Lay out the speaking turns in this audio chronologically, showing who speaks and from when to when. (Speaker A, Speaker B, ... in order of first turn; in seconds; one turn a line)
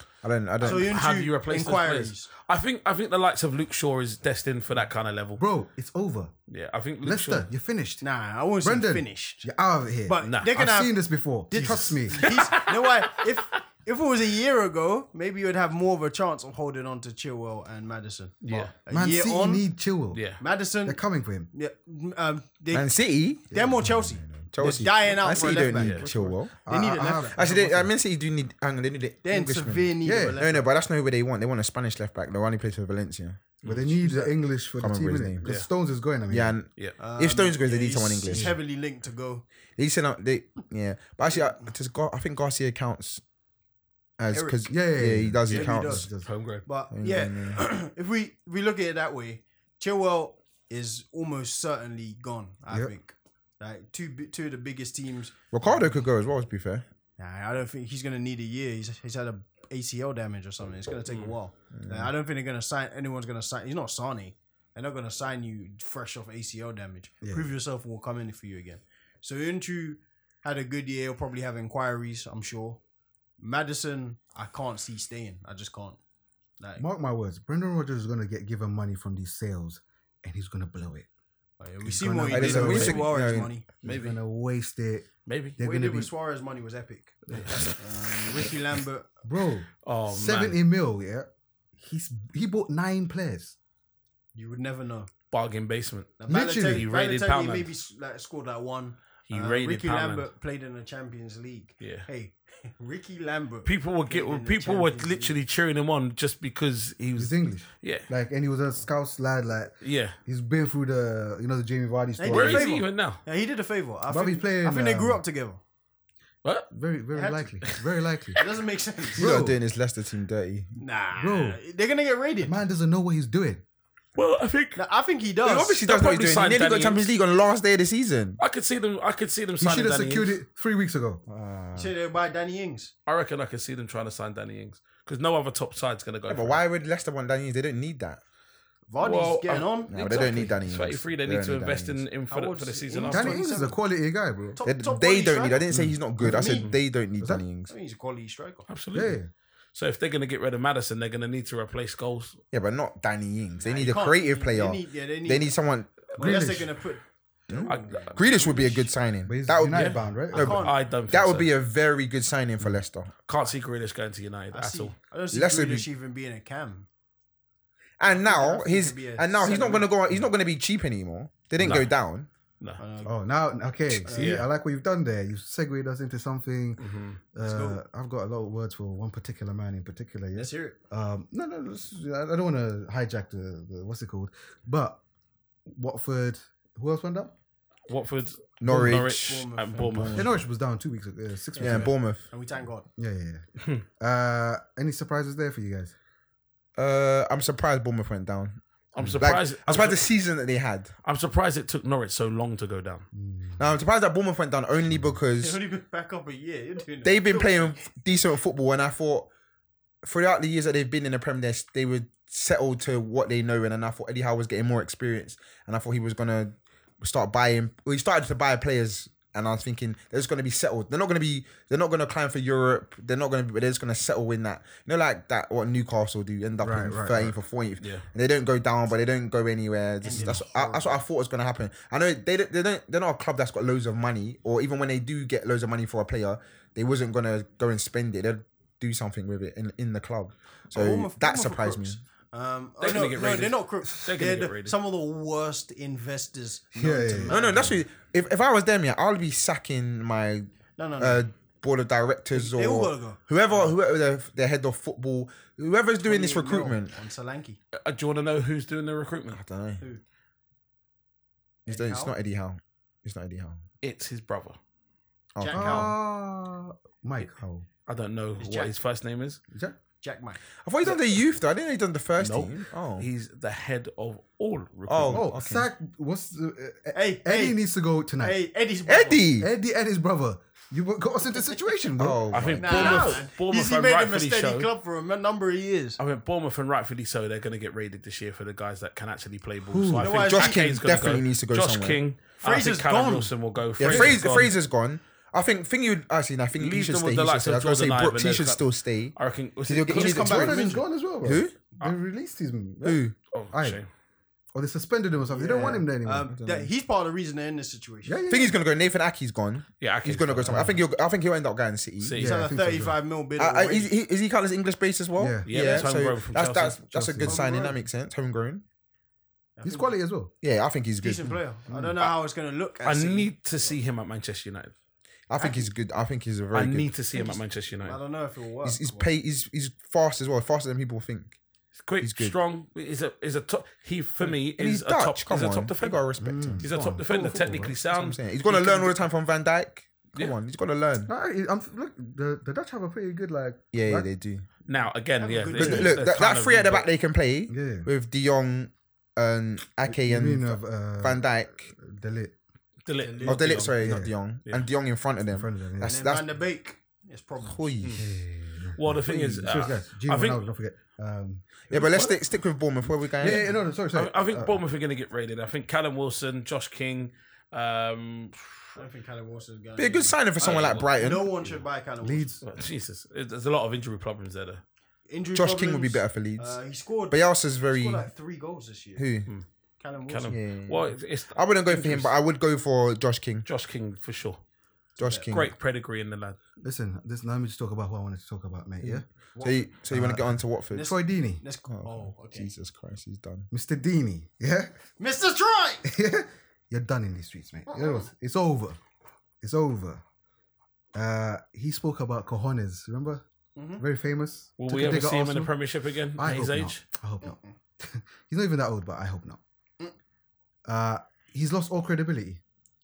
Speaker A: 0.2-0.9
Speaker B: 0.6-2.3
Speaker C: 0.6-5.4
Speaker D: 5.4-6.3
Speaker C: 6.5-7.5
Speaker D: 7.0-8.0
Speaker B: 8.0-9.5
Speaker D: 8.6-12.2
Speaker B: 10.1-11.0
Speaker C: 10.2-10.5
Speaker B: 11.5-19.7
Speaker C: 12.2-13.2
Speaker C: 18.4-18.7
Speaker D: 18.9-20.2
Speaker C: 20.1-20.4
Speaker B: 20.4-27.4
Speaker D: 20.8-21.5
Speaker A: 22.7-26.6
Speaker C: 25.7-26.1
Speaker D: 26.6-27.9
Speaker A: 27.3-33.4
Speaker B: 29.2-30.7
Speaker D: 30.0-30.4
Speaker C: 33.6-34.0
Speaker D: 33.6-36.5
Speaker B: 34.0-34.3
Speaker A: 34.8-35.5
Speaker A: 36.3-38.6
Speaker B: 37.0-39.5
Speaker D: 38.3-38.6
Speaker A: 39.8-43.2
Speaker B: 41.3-41.6
Speaker A: 44.2-46.1
Speaker B: 44.3-44.7
Speaker D: 44.6-46.3
Speaker B: 45.5-46.1
Speaker C: 46.2-46.6
Speaker B: 46.6-55.8
Speaker A: 46.9-47.6
Speaker A: 55.5-56.9
Speaker B: 57.2-72.8
Speaker C: 61.1-61.3
Speaker A: 61.7-62.1
Speaker D: 67.2-67.5
Speaker B: 73.4-76.0
Speaker B: 76.6-76.8
Speaker D: 76.8-81.1
Speaker B: 81.6-83.7
Speaker D: 81.8-83.1
Speaker A: 82.3-83.5
Speaker D: 83.8-86.1
Speaker C: 83.8-84.2
Speaker C: 85.2-85.6
Speaker B: 85.6-89.1
Speaker C: 87.3-87.8
Speaker D: 89.2-93.5
Speaker C: 89.8-90.6
Speaker B: 94.3-95.1
Speaker C: 95.3-97.7
Speaker B: 96.2-105.3
Speaker D: 96.3-96.9
Speaker C: 99.3-100.3
Speaker C: 101.8-102.1
Speaker C: 103.6-108.1
Speaker D: 107.2-112.7
Speaker C: 109.8-110.2
Speaker B: 112.2-115.6
Speaker C: 112.3-113.2
Speaker D: 114.1-115.2
Speaker C: 116.4-116.7
Speaker D: 116.7-118.4
Speaker B: 117.1-117.5
Speaker B: 118.4-119.2
Speaker D: 119.2-119.6
Speaker A: 119.2-120.8
Speaker B: 120.8-122.6
Speaker D: 121.2-121.6
Speaker D: 122.4-123.6
Speaker C: 124.1-124.8
Speaker B: 124.8-125.8
Speaker A: 125.4-128.4
Speaker C: 125.8-127.1
Speaker C: 128.4-130.3
Speaker D: 129.6-131.3
Speaker A: 131.3-131.9
Speaker B: 131.7-132.9
Speaker C: 133.1-136.6
Speaker A: 136.3-138.2
Speaker B: 138.9-140.3
Speaker C: 139.0-143.4
Speaker A: 139.9-142.0
Speaker B: 142.3-143.8
Speaker D: 143.1-144.6
Speaker B: 144.6-145.7
Speaker A: 144.6-147.7
Speaker D: 145.7-146.7
Speaker B: 146.2-146.7
Speaker B: 147.7-148.7
Speaker C: 148.7-149.2
Speaker D: 148.9-149.3
Speaker C: 149.7-152.4
Speaker A: 152.5-156.1
Speaker B: 153.6-155.5
Speaker B: 156.1-158.9
Speaker D: 156.2-156.7
Speaker A: 157.5-163.1
Speaker C: 157.7-158.2
Speaker D: 159.2-160.6
Speaker C: 159.7-161.5
Speaker B: 160.3-160.7
Speaker C: 163.3-164.9
Speaker B: 164.5-166.9
Speaker A: 165.3-165.9
Speaker A: 168.0-172.3
Speaker B: 168.1-170.2
Speaker D: 171.6-171.8
Speaker C: 171.6-171.9
Speaker B: 172.8-173.2
Speaker D: 173.0-185.0
Speaker B: 174.0-174.4
Speaker C: 174.1-174.4
Speaker C: 176.8-177.2
Speaker B: 177.4-177.8
Speaker B: 180.3-180.8
Speaker D: 185.7-187.3
Speaker C: 187.9-190.3
Speaker A: 188.6-190.2
Speaker B: 189.2-190.2
Speaker D: 190.1-191.9
Speaker B: 191.6-192.9
Speaker A: 191.6-192.2
Speaker D: 193.0-193.4
Speaker D: 194.0-195.9
Speaker A: 196.8-200.9
Speaker C: 198.9-200.1
Speaker C: 201.0-203.1
Speaker D: 203.1-203.8
Speaker A: 203.6-205.6
Speaker B: 205.4-207.8
Speaker A: 207.0-209.3
Speaker A: 210.0-242.0
Speaker D: 226.6-227.4
Speaker C: 227.8-228.1
Speaker B: 230.0-231.0
Speaker B: 240.7-247.8
Speaker C: 242.8-244.8
Speaker D: 246.7-247.7
Speaker A: 247.3-257.0
Speaker B: 250.8-251.2
Speaker B: 252.3-253.7
Speaker B: 256.0-257.6
Speaker C: 257.7-259.4
Speaker A: 259.3-259.8
Speaker B: 261.6-262.1
Speaker A: 261.7-263.6
Speaker C: 263.8-264.6
Speaker A: 265.4-265.9
Speaker B: 265.4-265.9
Speaker D: 265.5-267.7
Speaker C: 267.9-269.4
Speaker B: 268.4-268.7
Speaker D: 269.5-269.8
Speaker B: 270.0-270.4
Speaker A: 270.6-273.1
Speaker C: 270.8-271.1
Speaker C: 272.2-275.3
Speaker A: 274.9-275.7
Speaker D: 275.1-278.4
Speaker B: 276.9-277.6
Speaker B: 278.2-279.2
Speaker A: 278.9-279.5
Speaker D: 279.4-282.3
Speaker A: 282.0-283.2
Speaker C: 282.3-284.7
Speaker B: 282.6-286.0
Speaker C: 286.0-294.5
Speaker D: 289.7-290.2
Speaker B: 290.0-290.7
Speaker A: 290.1-292.0
Speaker B: 292.4-293.3
Speaker A: 293.8-300.6
Speaker B: 293.9-294.2
Speaker C: 296.5-300.2
Speaker B: 299.9-300.8
Speaker D: 300.0-303.8
Speaker A: 301.2-301.6
Speaker A: 302.8-303.1
Speaker C: 303.3-303.9
Speaker D: 304.5-306.3
Speaker B: 305.3-308.2
Speaker A: 306.3-306.7
Speaker D: 308.0-308.6
Speaker A: 308.3-312.3
Speaker C: 309.8-310.8
Speaker D: 310.5-310.8
Speaker C: 312.0-312.4
Speaker D: 312.2-313.0
Speaker B: 312.2-313.9
Speaker A: 313.4-318.6
Speaker D: 315.1-315.5
Speaker C: 315.4-316.8
Speaker D: 316.9-317.4
Speaker B: 317.2-317.8
Speaker B: 319.6-319.9
Speaker D: 319.6-320.3
Speaker A: 320.4-321.4
Speaker B: 321.0-323.8
Speaker D: 321.7-321.9
Speaker C: 322.8-324.7
Speaker A: 325.3-326.9
Speaker B: 325.4-325.7
Speaker C: 326.5-328.0
Speaker B: 327.1-329.1
Speaker A: 328.6-331.4
Speaker C: 331.8-336.1
Speaker A: 332.0-332.4
Speaker A: 334.2-336.7
Speaker D: 336.2-337.8
Speaker C: 336.6-338.9
Speaker A: 337.9-341.1
Speaker B: 338.5-338.8
Speaker D: 341.1-344.1
Speaker A: 343.7-344.4
Speaker C: 344.6-346.9
Speaker B: 345.2-346.1
Speaker A: 345.5-351.7
Speaker D: 347.5-347.9
Speaker D: 349.8-352.3
Speaker C: 352.9-354.7
Speaker B: 353.0-353.7
Speaker A: 353.2-356.3
Speaker D: 353.8-354.1
Speaker D: 355.3-356.0
Speaker B: 355.8-357.8
Speaker A: 357.4-358.1
Speaker D: 357.9-361.6
Speaker C: 358.8-360.4
Speaker A: 361.7-363.5
Speaker C: 361.7-362.2
Speaker D: 363.2-364.6
Speaker C: 363.2-368.8
Speaker B: 368.8-372.4
Speaker A: 369.8-371.3
Speaker C: 370.4-371.6
Speaker D: 372.0-372.4
Speaker C: 372.4-374.6
Speaker B: 375.1-379.0
Speaker A: 375.3-376.6
Speaker A: 377.1-378.1
Speaker A: 379.0-379.3
Speaker B: 379.8-380.4
Speaker C: 380.1-382.1
Speaker A: 380.3-383.4
Speaker C: 383.4-384.4
Speaker B: 385.0-385.3
Speaker A: 385.0-385.5
Speaker C: 385.3-386.4
Speaker D: 386.6-389.1
Speaker A: 388.8-390.9
Speaker B: 389.3-389.7
Speaker D: 389.9-391.4
Speaker B: 390.7-392.5
Speaker A: 391.7-393.5
Speaker D: 393.5-394.7
Speaker B: 395.0-395.9
Speaker D: 395.8-398.8
Speaker B: 397.7-398.1
Speaker D: 399.4-400.0
Speaker D: 400.9-403.2
Speaker B: 403.6-403.8
Speaker D: 403.8-405.5
Speaker C: 404.6-406.8
Speaker D: 406.2-409.4
Speaker B: 407.2-407.5
Speaker D: 410.6-412.4